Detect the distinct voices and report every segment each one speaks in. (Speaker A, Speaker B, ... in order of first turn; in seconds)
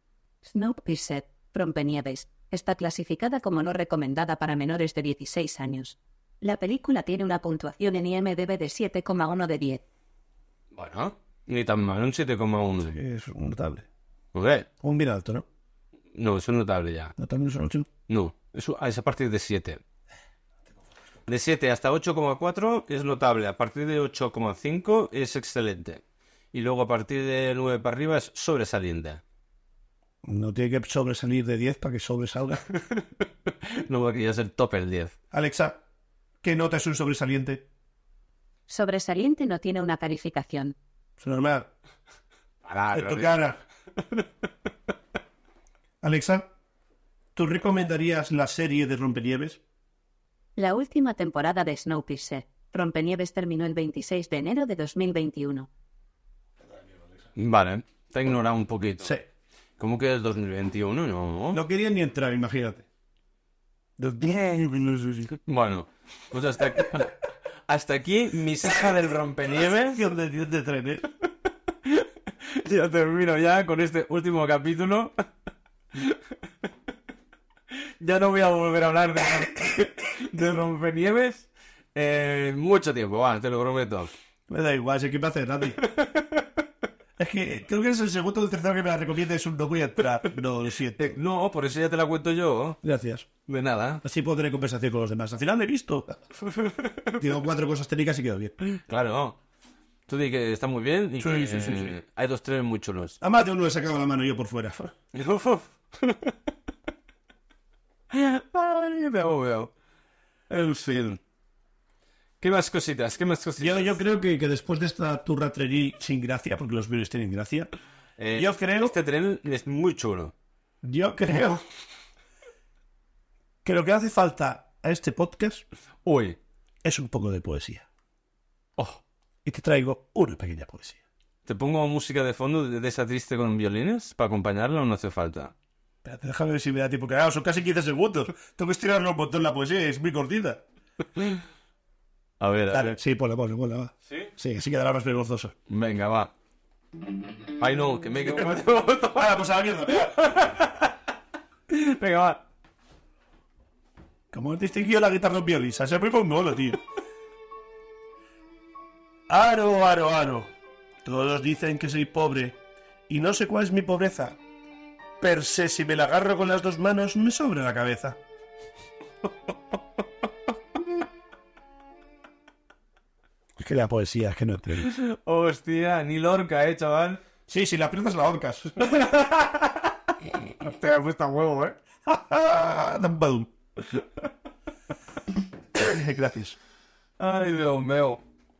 Speaker A: 0.4-9.8, 38.7-40.7, 50.6-55.7
Speaker B: 10.7-13.0, 14.3-14.7, 16.1-17.1, 18.1-19.8, 21.3-26.0, 26.5-29.2, 32.9-35.1, 42.6-43.3, 57.4-59.1, 59.8-61.6, 65.5-70.0, 71.9-75.1, 78.0-84.1, 85.9-86.3, 91.0-92.8, 93.5-94.0, 96.4-97.2, 98.8-99.4, 100.1-103.2, 105.1-106.3, 108.1-109.7, 110.5-111.2, 112.4-114.0, 118.2-120.3, 126.0-126.4, 128.8-129.0, 131.4-135.5, 142.4-142.9, 145.7-146.3, 147.6-150.9, 151.7-152.4, 174.8-177.2, 178.8-179.9, 180.6-181.8, 187.2-188.2
Speaker C: 12.9-13.8, 14.8-15.4, 17.2-17.9, 30.2-32.6, 35.3-35.8, 36.4-37.6, 41.2-41.7, 42.9-43.6, 46.0-46.5, 47.3-49.6, 61.5-62.8, 64.0-65.4, 69.7-71.0, 84.5-85.8, 87.2-91.2, 92.8-93.3, 94.0-96.2, 97.2-98.5, 101.2-102.0, 103.2-104.9, 113.6-117.7, 118.3-118.9, 120.8-121.6, 123.6-125.6, 126.8-127.8, 129.4-131.0, 136.0-140.6, 142.7-145.5, 149.0-150.2, 154.3-156.8, 159.3-160.5, 161.0-164.4, 165.2-168.2, 173.6-174.9, 177.5-178.9, 182.1-183.5, 185.7-186.6